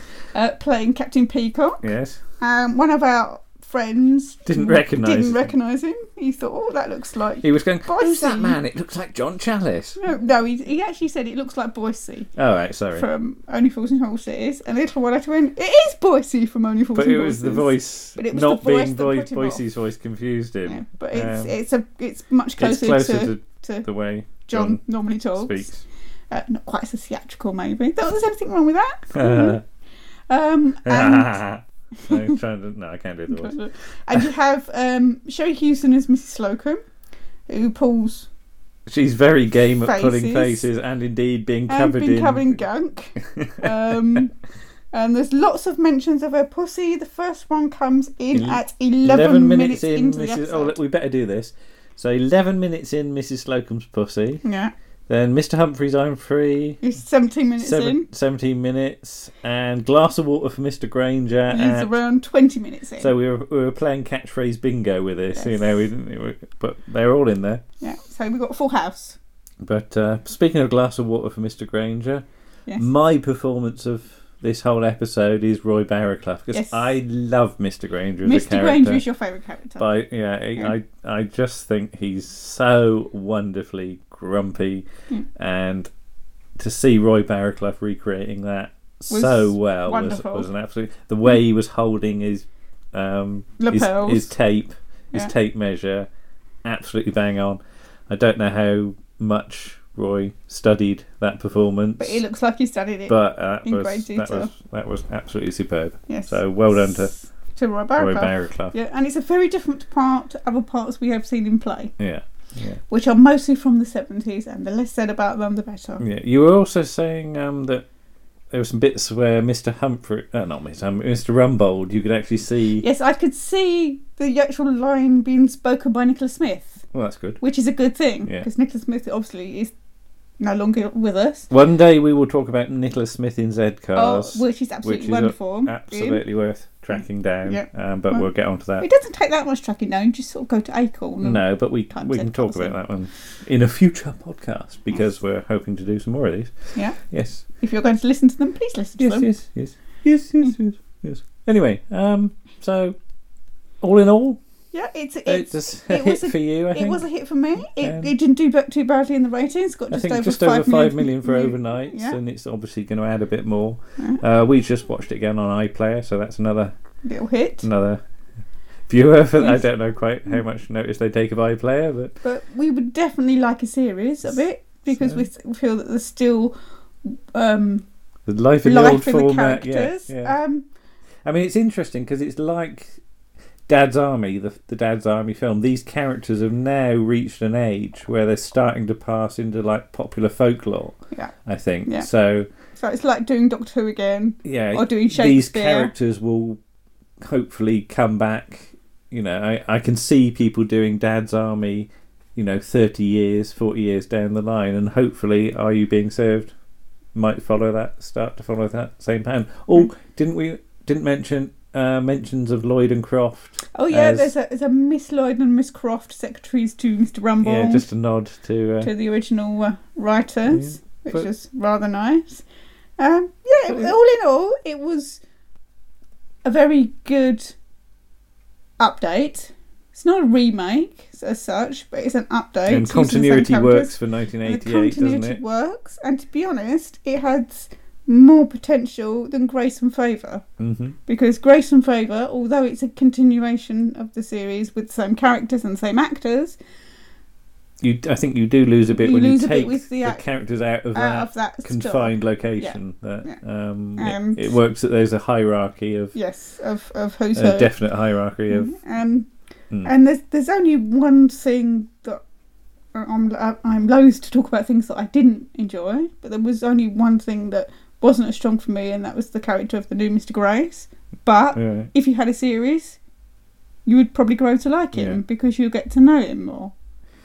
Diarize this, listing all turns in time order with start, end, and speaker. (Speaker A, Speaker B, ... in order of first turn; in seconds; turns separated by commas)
Speaker A: 0.3-1.8, Speaker B: 1.8-2.2, Speaker A: 2.4-8.6, Speaker B: 4.5-5.5, Speaker B: 7.4-10.0, Speaker A: 10.0-12.3, Speaker B: 12.4-13.1, Speaker A: 12.9-19.6, Speaker B: 16.9-21.5, Speaker A: 20.7-25.7, Speaker B: 22.6-24.8, Speaker B: 25.3-25.8, Speaker A: 26.3-29.6, Speaker B: 29.1-29.6, Speaker A: 30.3-31.4, Speaker B: 30.8-33.6, Speaker A: 33.3-36.8, Speaker A: 37.5-38.3, Speaker B: 38.9-42.6, Speaker A: 39.8-40.6, Speaker A: 41.7-44.3, Speaker B: 43.2-44.2, Speaker A: 44.9-50.8, Speaker B: 48.3-54.4, Speaker A: 54.4-54.7, Speaker B: 55.1-56.8, Speaker A: 56.8-58.1, Speaker B: 57.6-61.9, Speaker A: 61.5-63.1, Speaker B: 63.0-67.6, Speaker A: 65.3-65.7, Speaker A: 67.8-69.2, Speaker B: 69.6-72.2, Speaker B: 72.8-79.0, Speaker A: 76.5-76.9, Speaker A: 78.2-79.9, Speaker B: 79.8-85.9, Speaker B: 86.6-96.1, Speaker A: 89.1-90.5, Speaker A: 93.6-94.3, Speaker B: 96.6-102.2, Speaker A: 102.0-104.5, Speaker B: 103.1-107.1, Speaker A: 106.1-111.9, Speaker B: 108.0-108.7, Speaker B: 112.0-112.8, Speaker A: 112.9-116.0, Speaker B: 116.0-117.8, Speaker B: 118.5-122.8, Speaker A: 122.8-126.8, Speaker B: 126.9-127.4, Speaker A: 127.4-129.7, Speaker A: 130.4-131.5, Speaker B: 131.5-138.9, Speaker A: 133.9-136.2, Speaker A: 137.4-138.3, Speaker A: 138.8-142.8, Speaker B: 141.2-147.4, Speaker A: 147.6-149.3, Speaker B: 149.0-152.9, Speaker B: 153.8-154.4, Speaker A: 154.7-162.2, Speaker B: 155.2-157.0, Speaker B: 157.8-158.1, Speaker B: 159.9-166.7, Speaker A: 167.0-167.7, Speaker B: 167.6-168.0, Speaker B: 168.9-172.1, Speaker A: 169.4-169.7, Speaker A: 172.2-177.8, Speaker B: 174.9-175.2, Speaker B: 178.3-180.3, Speaker A: 178.6-180.7, Speaker B: 181.2-183.0, Speaker B: 183.7-192.5, Speaker A: 192.8-195.9, Speaker B: 194.4-196.6, Speaker B: 197.2-206.5, Speaker B: 207.1-214.3, Speaker A: 213.7-217.9, Speaker B: 217.4-218.9, Speaker A: 218.8-222.4, Speaker B: 220.5-221.3, Speaker A: 223.0-225.2, Speaker B: 223.7-223.9, Speaker A: 226.4-227.5, Speaker A: 228.8-240.4, Speaker B: 232.7-235.4, Speaker B: 240.6-241.0, Speaker A: 241.1-246.6, Speaker B: 247.8-256.1, Speaker A: 248.9-250.2, Speaker A: 250.9-253.4, Speaker A: 254.0-254.5, Speaker A: 256.1-257.7, Speaker B: 257.3-258.7, Speaker A: 258.5-259.3, Speaker A: 259.8-262.2, Speaker A: 262.9-273.0, Speaker B: 271.5-271.9, Speaker A: 273.9-276.7, Speaker B: 274.9-275.2